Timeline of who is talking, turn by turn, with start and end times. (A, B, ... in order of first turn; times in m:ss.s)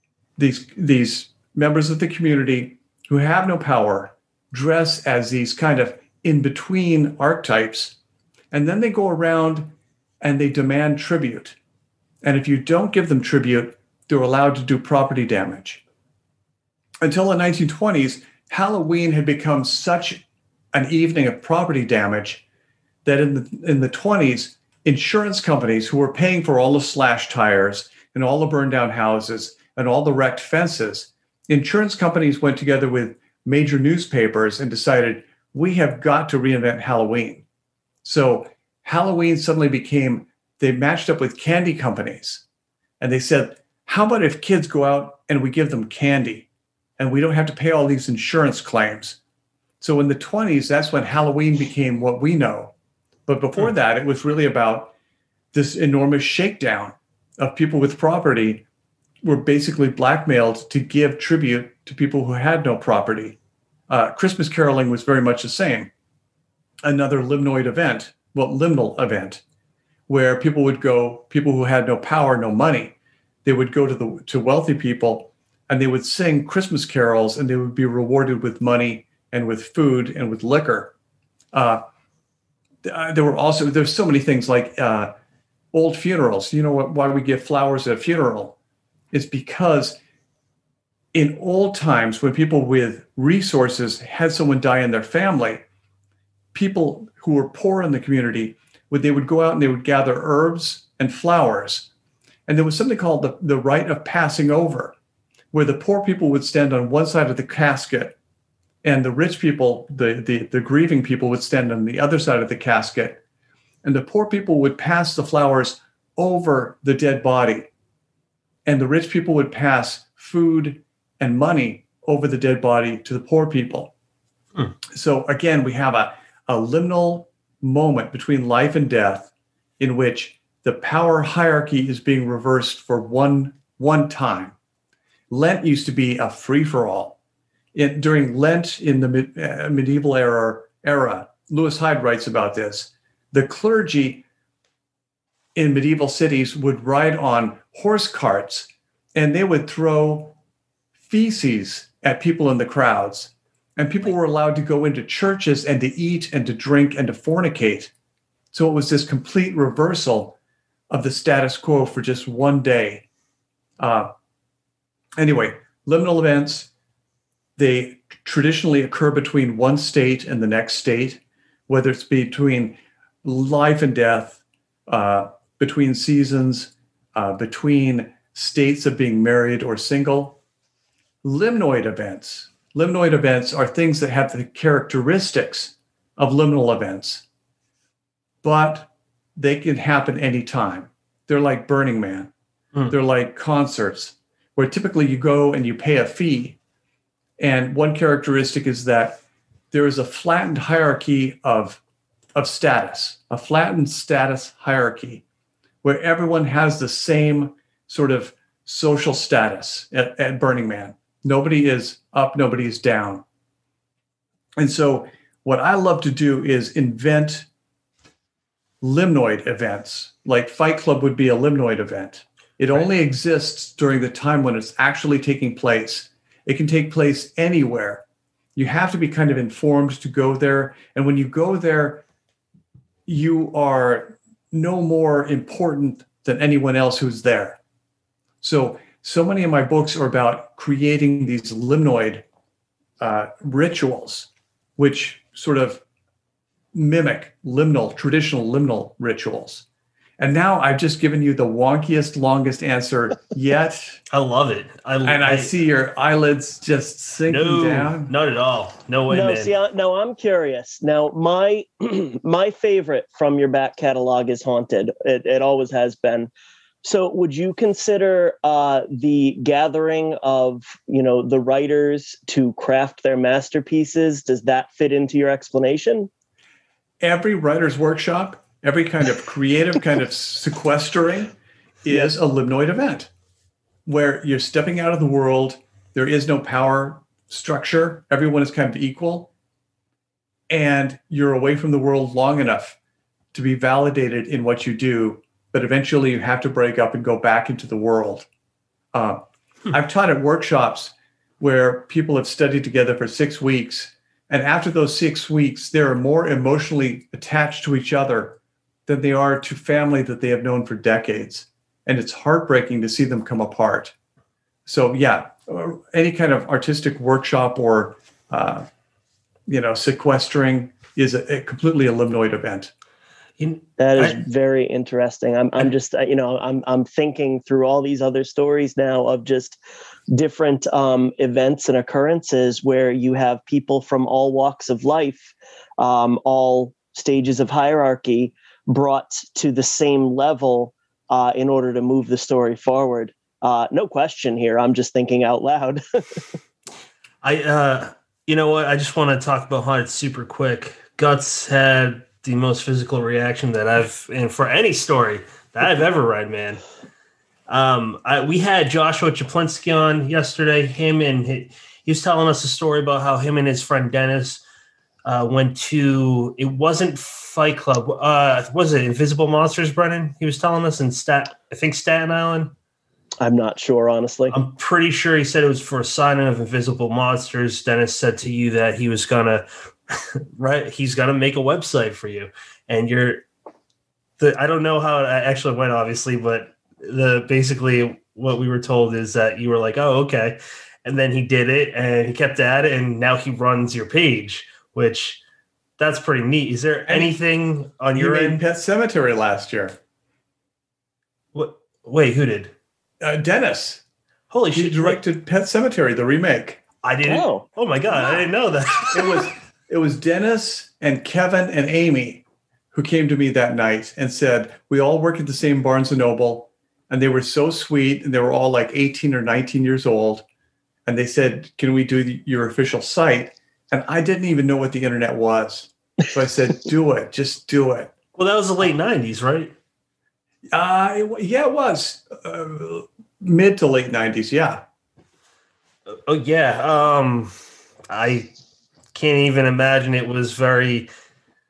0:00.4-0:08.0 A
0:08.5-0:11.6 A
0:12.2-0:15.8 A
0:17.0-0:22.4 A
0:23.0-0:37.4 A
0:38.0-0:42.4 A
0:43.0-0:49.2 A
0:49.8-0:52.7 A
0:53.3-0:54.9 A
0:55.5-0:58.6 A
0:59.2-1:03.4 A
1:03.9-1:05.9 A
1:06.8-1:09.4 A
1:10.1-1:20.9 A
1:21.5-1:21.8 A
1:22.8-1:25.1 A
1:25.7-1:28.6 A
1:29.1-1:30.0 A
1:31.1-1:35.6 A
1:36.5-1:41.9 A
1:42.5-1:44.9 A
1:45.5-1:48.2 A
1:48.8-1:53.2 A
1:53.8-1:57.7 A
1:58.7-2:03.9 A
2:04.9-2:14.6 A
2:15.3-2:17.2 A
2:17.7-2:24.2 A
2:25.6-2:30.4 A
2:31.0-2:37.9 A
2:38.5-2:40.4 A
2:40.9-2:43.0 A
2:43.8-2:44.1 A
2:45.2-2:46.7 A
2:47.6-3:00.4 A
3:01.2-3:07.2 A
3:08.4-3:12.3 A
3:12.9-3:16.6 A
3:17.4-3:19.2 A
3:19.7-3:21.8 A
3:22.4-3:25.2 A
3:25.8-3:33.2 A
3:34.6-3:37.5 A
3:38.8-3:48.0 A
3:48.6-3:52.0 A
3:53.1-3:57.6 A
3:58.4-4:02.2 A
4:03.0-4:05.8 A
4:06.7-4:09.6 A
4:10.2-4:14.0 A
4:14.1-4:15.5 B
4:15.0-4:18.1 A
4:17.3-4:19.6 B
4:19.1-4:26.3 C
4:26.8-4:36.1 C
4:37.0-4:43.1 A
4:43.9-4:49.3 A
4:50.5-4:52.8 A
4:53.3-4:58.3 A
4:58.9-5:13.9 A
5:14.7-5:18.7 A
5:19.5-5:22.7 A
5:23.4-5:24.2 B
5:23.8-5:29.6 C
5:30.1-5:46.2 C
5:47.2-5:56.6 B
5:57.5-6:04.4 B
6:05.0-6:12.5 B
6:13.2-6:14.4 C
6:14.3-6:23.2 B
6:24.2-6:35.2 B
6:35.8-6:38.4 B
6:36.9-6:37.2 A
6:38.0-6:39.8 A
6:41.3-6:42.5 B
6:43.0-6:43.8 A
6:44.3-6:45.0 B
6:44.5-6:46.6 A
6:46.8-6:49.3 B
6:47.0-6:47.4 C
6:48.9-7:00.2 A
7:00.9-7:07.9 A
7:08.2-7:09.5 B
7:10.5-7:14.6 A
7:15.9-7:17.3 B
7:17.9-7:18.3 B
7:18.9-7:20.9 B